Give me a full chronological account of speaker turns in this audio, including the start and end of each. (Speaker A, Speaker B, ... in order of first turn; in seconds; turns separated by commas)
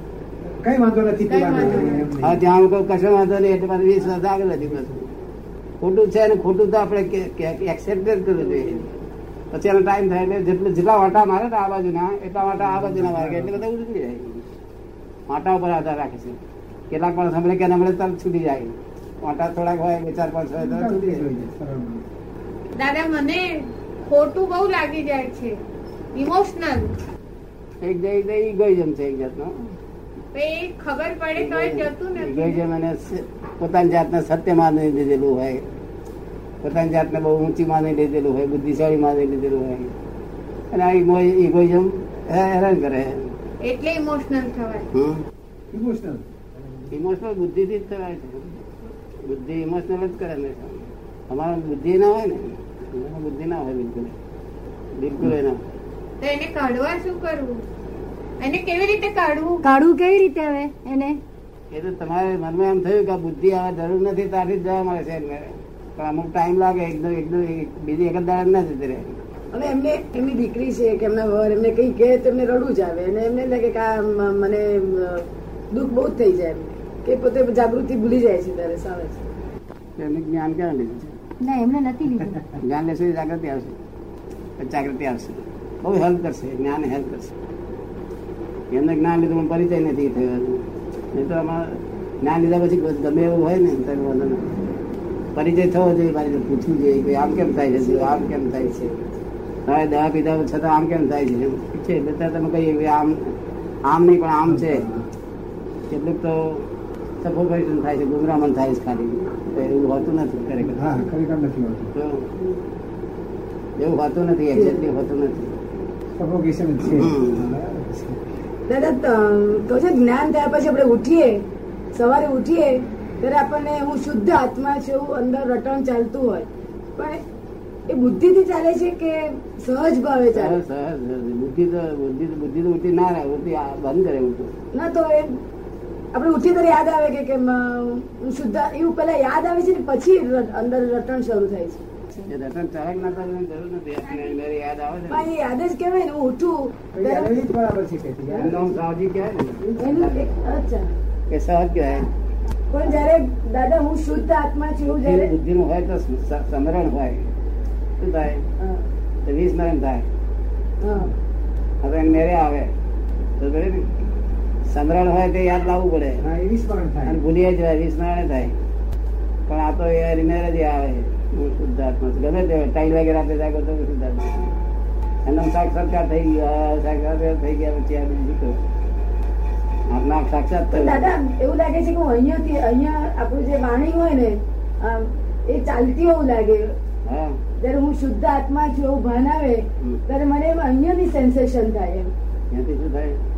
Speaker A: 0.4-2.4, Speaker B: 1.3-2.1, Speaker C: 2.2-5.1, Speaker C: 5.8-8.9, Speaker C: 9.5-14.4, Speaker A: 12.6-13.6, Speaker C: 15.3-16.4, Speaker C: 16.9-21.2, Speaker A: 20.6-22.1, Speaker B: 22.8-25.6, Speaker B: 26.1-26.9, Speaker C: 27.8-29.7, Speaker B: 30.3-32.6, Speaker C: 31.4-35.6, Speaker C: 36.6-39.9, Speaker C: 40.7-43.3, Speaker B: 43.6-44.9, Speaker C: 44.9-45.2, Speaker A: 45.7-46.9, Speaker C: 46.9-48.7, Speaker C: 49.2-54.1, Speaker C: 55.0-55.6, Speaker B: 56.2-57.6, Speaker B: 58.4-59.6, Speaker D: 59.6-61.2, Speaker C: 61.7-69.2, Speaker E: 69.5-79.2, Speaker C: 80.0-81.2, Speaker D: 81.4-82.4, Speaker C: 82.6-83.8, Speaker C: 84.6-87.3, Speaker C: 88.7-94.5, Speaker C: 95.4-98.9, Speaker E: 97.9-98.9, Speaker C: 99.7-103.3, Speaker C: 103.8-104.9, Speaker A: 104.5-105.1, Speaker C: 105.9-106.7, Speaker C: 107.2-111.0, Speaker A: 110.7-111.9, Speaker C: 112.0-112.3, Speaker C: 113.8-115.5, Speaker E: 114.5-114.9, Speaker A: 116.2-118.2, Speaker C: 116.9-117.5, Speaker E: 118.7-121.4, Speaker E: 122.0-127.2, Speaker E: 127.9-130.6, Speaker C: 130.3-134.5, Speaker E: 134.7-135.3, Speaker E: 136.1-141.8, Speaker C: 142.1-145.3, Speaker E: 145.1-147.3, Speaker A: 146.9-148.6, Speaker C: 148.3-150.2, Speaker E: 149.8-150.9, Speaker C: 151.3-152.1, Speaker E: 152.7-155.3, Speaker C: 154.8-157.3, Speaker C: 158.0-158.4, Speaker E: 158.6-158.8, Speaker C: 159.2-160.1, Speaker E: 160.8-161.1, Speaker C: 161.8-162.7, Speaker C: 163.4-163.9, Speaker C: 164.7-166.2, Speaker A: 166.2-167.2, Speaker C: 167.0-168.5, Speaker C: 169.5-174.5, Speaker C: 175.2-178.6, Speaker C: 179.9-181.1, Speaker E: 180.7-186.7, Speaker C: 187.1-187.4, Speaker E: 187.6-192.1, Speaker C: 192.5-193.2